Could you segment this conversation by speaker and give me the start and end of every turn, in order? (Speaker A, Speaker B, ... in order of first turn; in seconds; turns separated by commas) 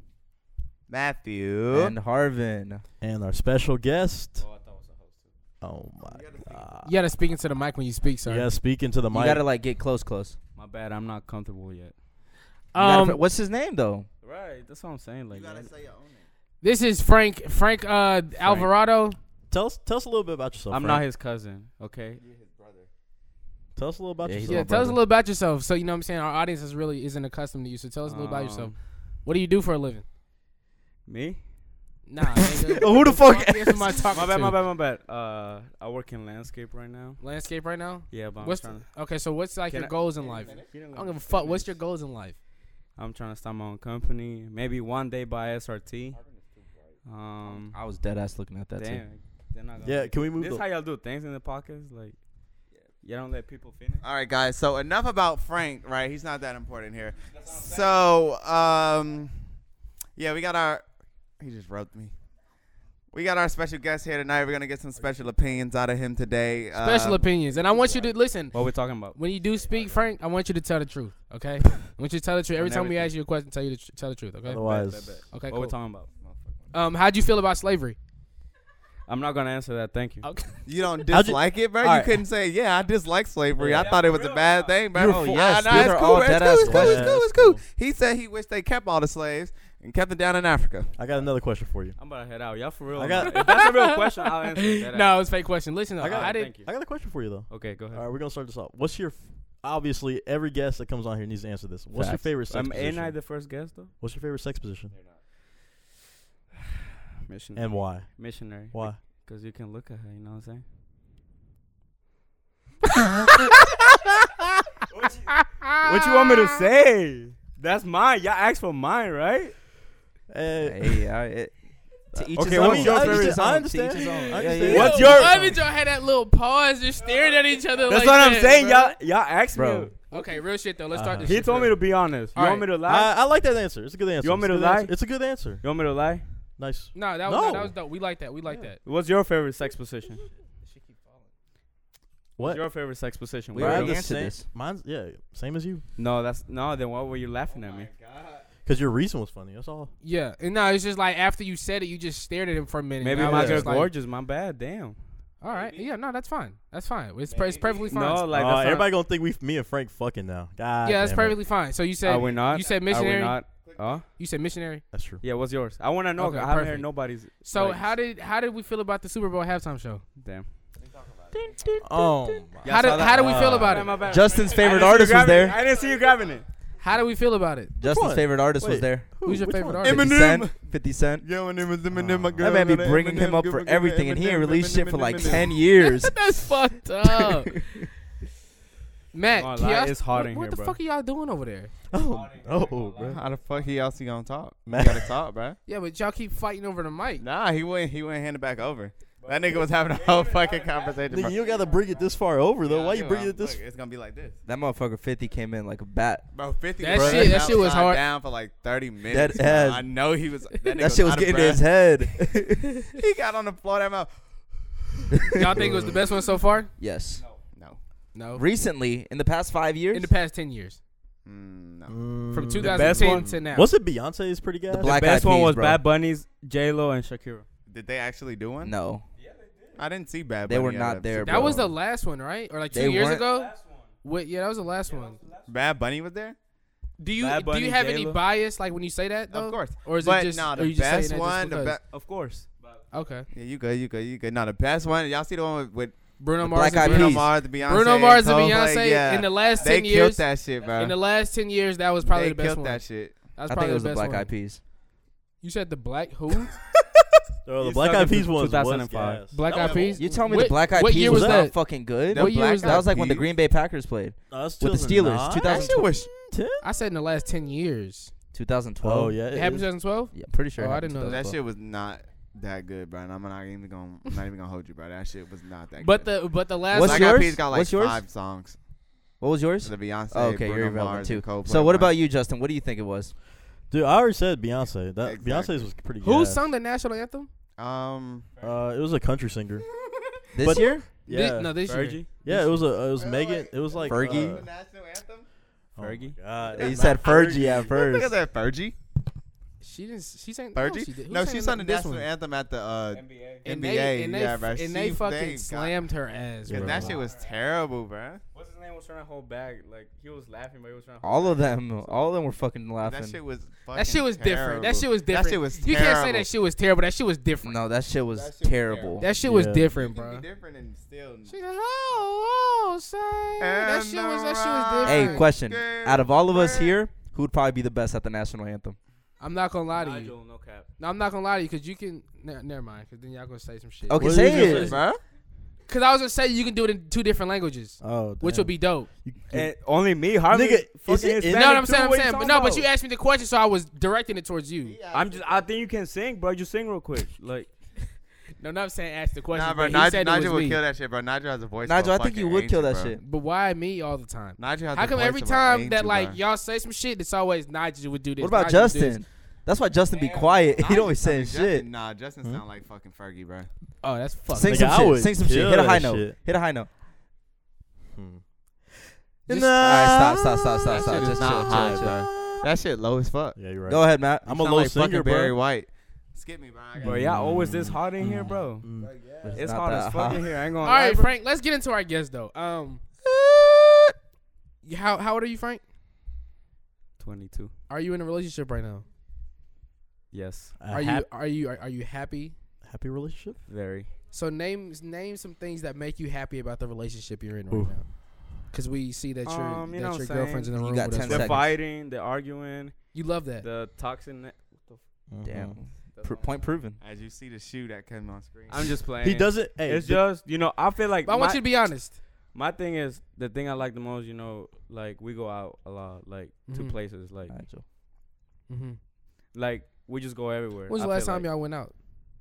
Speaker A: 0.9-1.9, Speaker B: 1.7-2.8, Speaker C: 3.0-4.5, Speaker D: 4.4-5.3, Speaker C: 5.6-6.9, Speaker A: 6.0-6.8, Speaker E: 6.8-8.5, Speaker C: 8.3-9.4, Speaker B: 9.1-10.4, Speaker D: 10.6-11.9, Speaker E: 12.7-13.2, Speaker B: 12.8-14.1, Speaker D: 14.2-15.7, Speaker A: 15.3-16.3, Speaker E: 16.6-19.2, Speaker B: 18.4-18.7, Speaker C: 19.5-21.0, Speaker D: 20.7-22.2, Speaker A: 22.2-22.9, Speaker C: 23.8-25.0, Speaker B: 24.2-25.0, Speaker E: 24.5-30.1, Speaker D: 28.1-28.8, Speaker D: 31.1-31.4, Speaker E: 32.1-34.6, Speaker B: 32.4-34.2, Speaker D: 34.1-37.2, Speaker E: 37.2-42.4, Speaker D: 38.1-38.9, Speaker D: 39.7-41.8, Speaker A: 40.2-40.8, Speaker D: 43.0-46.2, Speaker A: 46.1-47.0, Speaker D: 47.0-47.8, Speaker B: 47.6-49.0, Speaker D: 48.8-52.2, Speaker C: 49.8-50.6, Speaker D: 53.0-54.0, Speaker A: 54.0-59.4, Speaker A: 60.2-60.9, Speaker A: 61.4-62.1, Speaker A: 63.1-68.1, Speaker E: 66.8-68.6, Speaker D: 68.5-69.2, Speaker E: 69.1-74.6, Speaker A: 69.7-70.0, Speaker D: 72.6-73.1, Speaker C: 74.5-75.2, Speaker D: 74.6-76.1, Speaker E: 75.3-75.8, Speaker A: 76.2-76.8, Speaker E: 76.7-78.0, Speaker D: 79.1-80.3, Speaker E: 80.2-80.7, Speaker A: 80.7-91.0, Speaker C: 81.1-82.2, Speaker B: 83.6-83.9, Speaker D: 83.6-84.8, Speaker C: 85.0-86.0, Speaker B: 85.0-87.5, Speaker C: 86.6-87.6, Speaker C: 91.0-92.0, Speaker D: 92.0-95.2, Speaker C: 92.9-93.6, Speaker E: 93.2-96.5, Speaker C: 96.0-103.2, Speaker D: 96.0-96.7, Speaker D: 97.5-98.1, Speaker B: 101.9-102.3, Speaker D: 102.5-103.9, Speaker C: 104.0-104.9, Speaker A: 104.9-105.2, Speaker D: 107.2-110.6, Speaker C: 107.5-109.0, Speaker E: 113.2-114.0, Speaker D: 114.9-119.6, Speaker E: 115.3-116.6, Speaker C: 120.3-121.0, Speaker B: 120.6-121.5, Speaker B: 122.1-125.3, Speaker C: 122.2-125.6, Speaker D: 122.4-123.5, Speaker E: 123.9-129.0, Speaker D: 124.7-125.4, Speaker D: 127.3-130.2, Speaker B: 129.6-129.9, Speaker E: 130.1-131.8, Speaker C: 130.9-131.4, Speaker D: 131.2-133.2, Speaker E: 132.3-132.7, Speaker C: 132.9-135.7, Speaker D: 134.2-136.2, Speaker C: 136.6-137.7, Speaker E: 136.9-138.8, Speaker D: 138.8-140.2, Speaker A: 140.7-141.2, Speaker C: 142.4-142.7, Speaker D: 142.4-144.0, Speaker B: 143.5-144.5, Speaker C: 143.6-145.8, Speaker D: 146.0-147.9, Speaker A: 147.5-148.5, Speaker C: 148.7-149.9, Speaker E: 150.0-153.9, Speaker D: 153.0-155.0, Speaker C: 153.2-153.7, Speaker E: 155.4-158.3, Speaker A: 155.5-155.9, Speaker A: 157.3-158.1, Speaker D: 157.9-158.9, Speaker C: 158.3-161.4, Speaker E: 160.8-163.4, Speaker D: 162.0-164.0, Speaker A: 162.1-162.7, Speaker A: 163.6-164.0, Speaker E: 164.2-164.8, Speaker C: 164.9-165.2, Speaker D: 165.2-167.9, Speaker E: 166.2-170.1, Speaker D: 170.2-170.5, Speaker A: 170.8-171.8, Speaker C: 171.8-174.0, Speaker D: 172.6-176.5, Speaker E: 172.6-174.0, Speaker B: 172.8-173.2, Speaker A: 174.0-176.4, Speaker B: 174.1-175.6, Speaker E: 176.8-177.7, Speaker B: 177.8-179.2, Speaker C: 177.8-180.0, Speaker E: 179.2-180.1, Speaker A: 179.8-185.6, Speaker B: 179.9-181.3, Speaker C: 181.9-182.4, Speaker B: 182.4-186.2, Speaker E: 185.7-187.9, Speaker B: 187.1-187.8, Speaker E: 189.1-191.7, Speaker D: 189.3-190.8, Speaker C: 191.9-193.2, Speaker D: 192.0-193.7, Speaker A: 193.0-195.6, Speaker C: 194.7-195.2, Speaker E: 195.7-197.2, Speaker A: 197.2-201.4, Speaker D: 199.2-202.0, Speaker C: 201.1-203.6, Speaker A: 202.6-204.4, Speaker B: 204.4-206.3, Speaker A: 206.3-211.7, Speaker E: 206.8-208.0, Speaker C: 206.9-207.5, Speaker B: 209.1-209.9, Speaker B: 210.6-213.0, Speaker A: 212.9-214.2, Speaker B: 215.1-215.5, Speaker E: 215.3-216.7, Speaker C: 215.6-216.0, Speaker B: 216.8-217.2, Speaker E: 218.1-218.4, Speaker B: 218.4-220.1, Speaker E: 219.9-220.8, Speaker A: 221.3-222.0, Speaker C: 221.9-225.0, Speaker E: 222.3-223.7, Speaker D: 222.6-223.3, Speaker B: 224.7-225.8, Speaker D: 224.8-227.4, Speaker A: 227.7-228.8, Speaker B: 228.6-229.0, Speaker D: 229.2-229.8, Speaker A: 229.8-231.7, Speaker B: 230.4-231.7, Speaker E: 231.2-233.5, Speaker B: 232.7-233.3, Speaker D: 233.2-233.9, Speaker E: 234.0-235.2, Speaker D: 234.9-235.5, Speaker A: 235.5-236.4, Speaker E: 237.0-241.8, Speaker D: 237.2-238.2, Speaker A: 239.3-241.8, Speaker D: 241.9-242.8, Speaker E: 242.9-243.3, Speaker A: 243.3-246.0, Speaker E: 246.2-254.3, Speaker B: 246.4-247.4, Speaker A: 246.8-251.0, Speaker A: 252.0-253.3, Speaker B: 253.5-254.6, Speaker E: 255.4-256.5, Speaker C: 257.4-259.4, Speaker D: 257.6-259.7, Speaker E: 259.3-262.9, Speaker A: 259.5-260.1, Speaker B: 259.9-265.9, Speaker C: 261.0-261.4, Speaker A: 262.1-263.3, Speaker C: 264.3-266.6, Speaker A: 265.3-266.1, Speaker E: 266.6-268.1, Speaker B: 268.3-269.2, Speaker C: 268.8-269.7, Speaker E: 269.3-271.2, Speaker B: 270.1-271.4, Speaker A: 271.1-276.2, Speaker E: 275.8-277.2, Speaker B: 276.7-278.1, Speaker A: 276.8-278.6, Speaker B: 279.2-283.2, Speaker A: 279.6-281.9, Speaker C: 283.7-286.5, Speaker A: 285.0-285.7, Speaker E: 286.0-287.3, Speaker A: 287.6-288.5, Speaker C: 288.4-289.7, Speaker A: 290.0-290.2, Speaker B: 290.3-290.9, Speaker C: 290.4-294.5, Speaker E: 291.0-292.7, Speaker D: 291.7-292.1, Speaker A: 293.0-295.3, Speaker B: 293.9-294.4, Speaker C: 295.8-297.7, Speaker D: 295.8-296.2, Speaker A: 296.4-298.8, Speaker B: 296.6-298.2, Speaker E: 299.6-302.1, Speaker A: 300.6-305.8, Speaker D: 302.9-303.4, Speaker E: 303.4-306.9, Speaker C: 306.5-307.0, Speaker A: 306.5-308.2, Speaker D: 308.3-312.1, Speaker B: 311.0-313.2, Speaker A: 312.8-316.3, Speaker E: 313.8-317.6, Speaker B: 317.4-319.1, Speaker A: 318.1-321.3, Speaker E: 319.0-320.2, Speaker C: 319.2-319.7, Speaker E: 321.3-325.3, Speaker A: 323.4-326.8, Speaker B: 324.9-328.8, Speaker E: 329.2-330.1, Speaker D: 329.8-330.7, Speaker E: 330.8-334.6, Speaker B: 333.9-334.8, Speaker C: 334.0-334.8, Speaker A: 334.3-335.0, Speaker E: 335.7-338.9, Speaker C: 337.8-339.5, Speaker D: 339.3-342.7, Speaker C: 340.3-342.1, Speaker E: 341.3-344.8, Speaker A: 344.6-345.5, Speaker D: 344.9-347.5, Speaker E: 348.4-350.6, Speaker A: 349.3-353.0, Speaker B: 351.6-353.0, Speaker E: 353.0-359.0, Speaker A: 354.4-356.2, Speaker B: 358.2-361.7, Speaker A: 359.9-363.5, Speaker E: 363.8-365.0, Speaker B: 364.3-366.7, Speaker C: 364.4-366.2, Speaker C: 367.9-368.2, Speaker C: 369.3-370.8, Speaker B: 369.3-372.0, Speaker A: 370.7-373.6, Speaker C: 372.1-372.4, Speaker C: 373.4-375.4, Speaker B: 373.7-374.3, Speaker A: 374.2-377.1, Speaker C: 376.8-379.1, Speaker D: 376.8-378.7, Speaker A: 378.8-379.5, Speaker B: 379.2-380.3, Speaker D: 379.3-381.1, Speaker E: 380.6-382.8, Speaker E: 384.6-385.6, Speaker D: 387.0-387.5, Speaker E: 387.7-388.9, Speaker D: 390.1-390.6, Speaker C: 390.6-391.1, Speaker E: 390.7-392.4, Speaker C: 392.6-393.4, Speaker D: 393.5-393.9, Speaker E: 394.1-401.4, Speaker C: 397.5-397.9, Speaker D: 399.3-400.5, Speaker B: 400.6-401.6, Speaker D: 401.0-404.8, Speaker E: 402.9-403.5, Speaker C: 405.1-405.6, Speaker B: 405.2-406.8, Speaker D: 405.9-406.5, Speaker A: 406.8-408.7, Speaker D: 408.5-417.3, Speaker C: 409.0-410.0, Speaker E: 411.1-412.0, Speaker E: 416.5-416.8, Speaker B: 417.3-417.6, Speaker E: 418.5-418.8, Speaker D: 419.3-421.3, Speaker E: 420.7-421.7